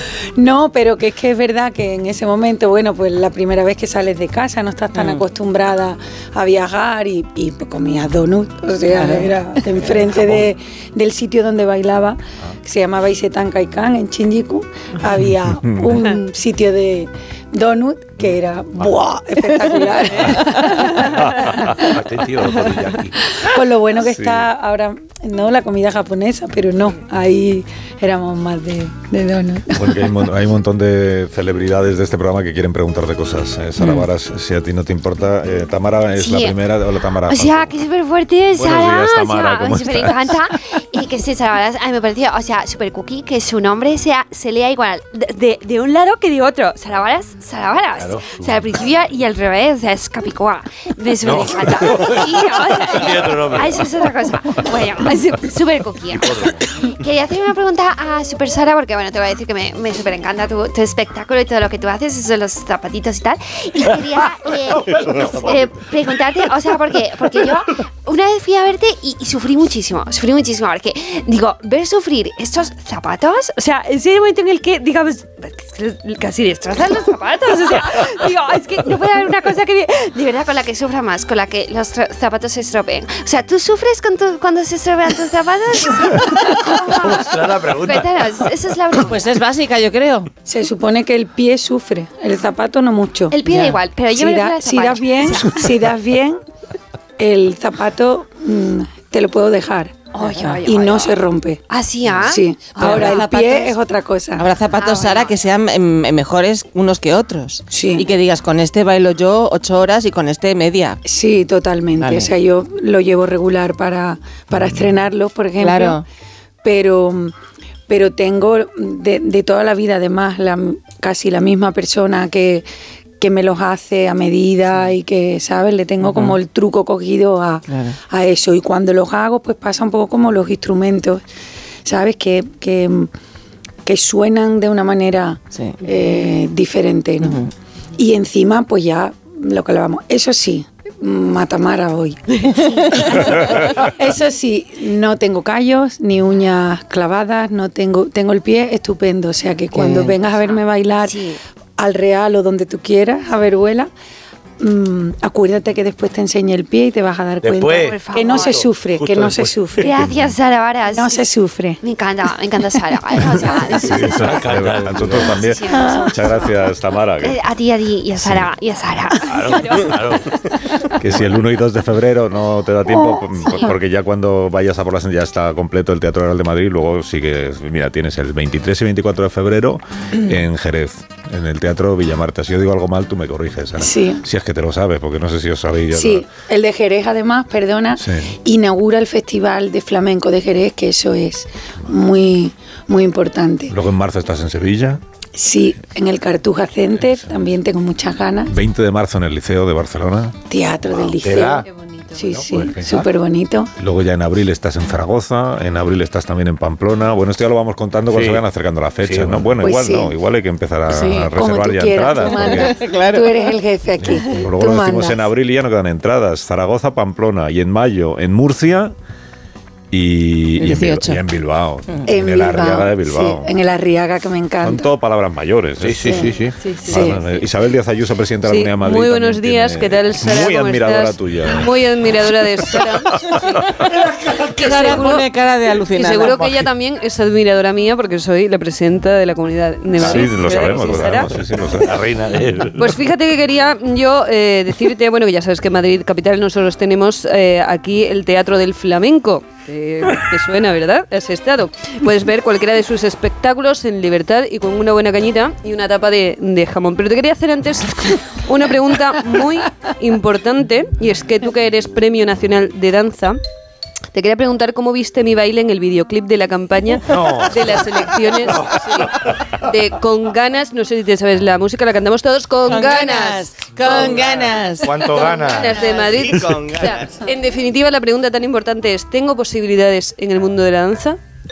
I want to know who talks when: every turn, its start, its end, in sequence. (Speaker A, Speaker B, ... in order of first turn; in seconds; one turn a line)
Speaker A: 0.4-21.3
Speaker B: 4.9-5.2
Speaker B: 8.9-9.3
Speaker C: 15.6-16.0
Speaker D: 21.6-23.1
Speaker A: 23.4-30.0
Speaker C: 24.0-24.5
Speaker C: 29.7-37.8
Speaker E: 36.2-36.6
Speaker E: 37.3-89.2
Speaker C: 38.5-40.4
Speaker D: 48.0-48.5
Speaker D: 51.2-53.9
Speaker D: 56.1-56.6
Speaker D: 64.9-65.6
Speaker D: 86.9-88.3
Speaker B: 89.1-90.3
Speaker A: 90.4-93.3
Speaker E: 93.3-95.7
Speaker B: 93.4-93.8
Speaker A: 94.1-96.4
Speaker A: 97.2-101.6
Speaker E: 100.1-101.2
Speaker E: 101.7-103.2
Speaker A: 102.2-104.5
Speaker B: 102.8-103.8
Speaker B: 104.4-111.0
Speaker E: 104.7-105.3
Speaker A: 107.7-108.1
Speaker A: 111.0-116.0
Speaker B: 112.0-112.3
Speaker B: 115.6-116.0
Speaker A: 116.6-117.3
Speaker A: 117.9-122.7
Speaker A: 123.2-131.2
Speaker B: 126.0-126.4
Speaker B: 127.7-128.0
Speaker A: 131.8-133.1
Speaker A: 133.8-137.4
Speaker B: 135.5-135.8
Speaker B: 137.2-137.5
Speaker A: 138.0-142.4
Speaker E: 142.6-143.5
Speaker A: 143.0-151.2
Speaker B: 149.7-150.1
Speaker E: 150.3-151.4
Speaker A: 151.8-153.9
Speaker A: 154.6-160.0
Speaker D: 157.4-159.8
Speaker E: 157.7-158.6
Speaker E: 159.8-161.2
Speaker A: 160.9-161.8
Speaker E: 161.8-164.6
Speaker C: 163.7-167.4
Speaker D: 164.1-165.4
Speaker E: 165.2-166.7
Speaker A: 165.7-166.1
Speaker E: 167.2-169.8
Speaker C: 168.2-168.5
Speaker D: 169.3-170.3
Speaker C: 171.0-186.2
Speaker A: 183.8-184.2
Speaker A: 185.9-193.7
Speaker C: 188.0-188.3
Speaker C: 193.7-195.0
Speaker A: 195.3-198.5
Speaker C: 198.5-200.4
Speaker A: 200.5-203.7
Speaker D: 201.2-201.7
Speaker E: 201.8-202.1
Speaker D: 202.2-203.0
Speaker C: 203.8-212.8
Speaker D: 208.1-208.4
Speaker D: 209.0-209.5
Speaker A: 209.6-210.1
Speaker B: 210.9-211.3
Speaker A: 211.3-215.2
Speaker B: 212.2-213.5
Speaker C: 214.0-218.9
Speaker C: 219.9-223.5
Speaker B: 220.6-221.2
Speaker A: 222.1-224.9
Speaker C: 224.6-226.3
Speaker D: 225.8-226.6
Speaker F: 226.6-227.4
Speaker A: 226.8-227.2
Speaker C: 226.9-232.2
Speaker F: 228.4-233.3
Speaker F: 234.5-235.3
Speaker B: 234.5-236.6
Speaker F: 235.9-241.4
Speaker C: 240.0-242.0
Speaker D: 241.8-242.9
Speaker F: 242.7-263.4
Speaker F: 264.1-274.2
Speaker D: 267.0-268.9
Speaker B: 272.6-275.1
Speaker D: 273.9-276.7
Speaker F: 275.0-281.2
Speaker B: 275.9-276.1